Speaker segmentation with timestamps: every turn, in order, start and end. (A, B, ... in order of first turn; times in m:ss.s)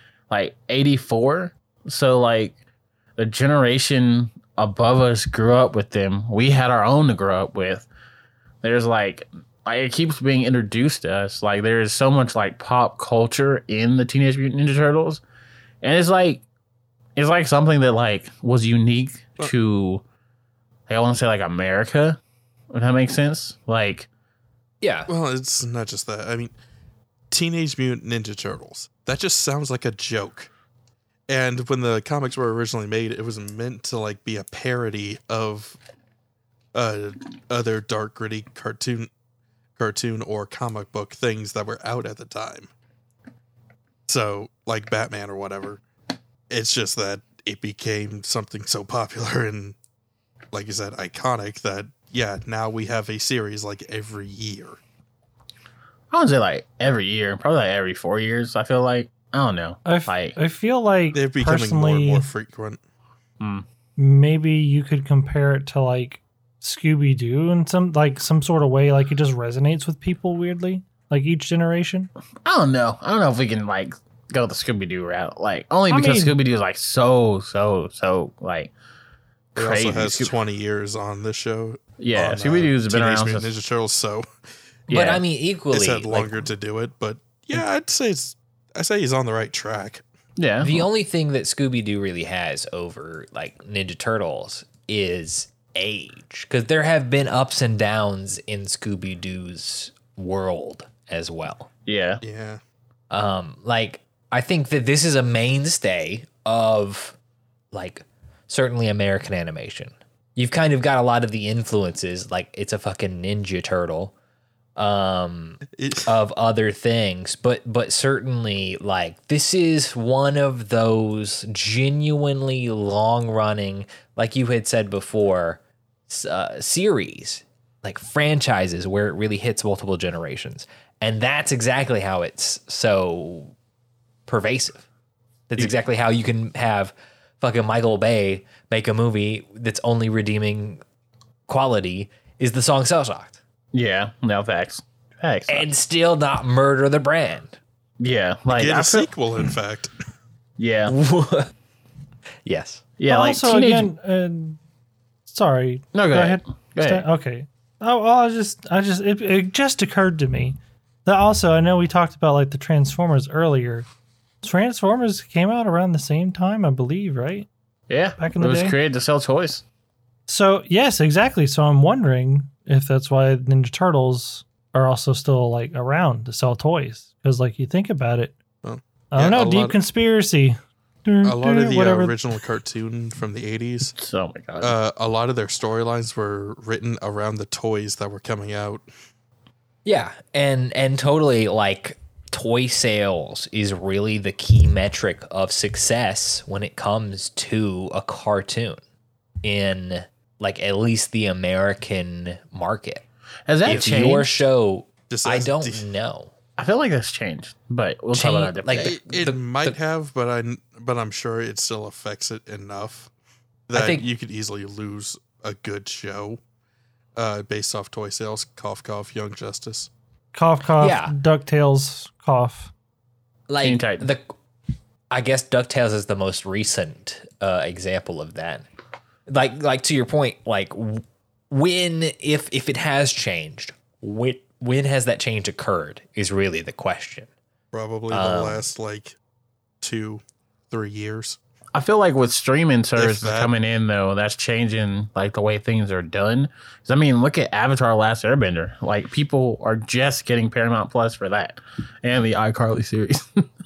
0:00.3-0:02.5 A
0:03.2-0:07.9 A
0:08.6-0:15.2 A
0:15.8-0:16.4 A
0:17.2-0:20.0 A
0:20.9-0:22.2 A
0:22.7-0:24.1 A
0:24.8-0:25.1 B
0:25.1-0:26.5 C
0:27.3-0:30.5 C
0:31.3-0:35.8 C
0:36.7-0:39.1 C
0:39.8-0:42.7 C
0:44.1-0:45.8 C
0:46.5-0:49.8 C
0:50.5-0:54.8 C
0:56.1-1:00.4 A
0:59.8-1:02.3 D
1:01.1-1:02.8 C
1:03.4-1:03.6 A
1:04.0-1:12.1 D
1:12.4-1:18.7 A
1:15.9-1:16.4 D
1:19.5-1:20.3 A
1:19.6-1:24.2 C
1:22.0-1:23.5 A
1:24.9-1:25.2 A
1:24.9-1:26.4 B
1:25.7-1:30.0 C
1:30.4-1:30.9 A
1:30.6-1:41.7 B
1:41.8-1:42.2 A
1:42.2-1:42.6 C
1:43.1-1:47.2 B
1:47.7-1:54.1 B
1:54.8-2:13.5 B
1:55.7-1:56.1 C
2:14.3-2:14.8 B
2:15.5-2:20.8 B
2:21.5-2:23.4 B
2:23.7-2:25.6 A
2:25.5-2:27.6 B
2:28.0-2:29.1 A
2:28.5-2:29.9 C
2:30.6-2:30.9 A
2:30.9-2:31.5 B
2:32.4-2:32.8 B
2:33.0-2:33.9 A
2:33.1-2:34.6 D
2:35.3-2:43.8 D
2:35.9-2:37.0 A
2:44.4-2:47.5 D
2:47.9-2:49.6 A
2:48.2-2:48.8 D
2:50.3-2:58.4 D
2:58.6-2:59.8 C
2:59.1-3:02.2 D
3:01.2-3:03.9 C
3:04.0-3:04.8 A
3:04.6-3:08.8 C
3:09.8-3:18.8 B
3:19.4-3:23.0 B
3:23.5-3:24.4 A
3:23.6-3:26.3 B
3:23.6-3:24.0 C
3:25.1-3:25.8 C
3:26.6-3:28.9 A
3:28.1-3:29.8 B
3:28.7-3:33.1 C
3:33.7-3:36.4 C
3:33.7-3:34.1 B
3:37.2-3:39.9 C
3:40.3-3:42.7 D
3:40.8-3:41.1 B
3:43.5-3:44.3 B
3:43.6-3:44.1 A
3:45.1-3:48.6 B
3:49.3-3:57.3 B
3:57.7-3:59.2 C
3:58.1-3:58.6 B
3:59.8-4:01.4 C
4:01.7-4:13.5 A
4:03.0-4:03.5 C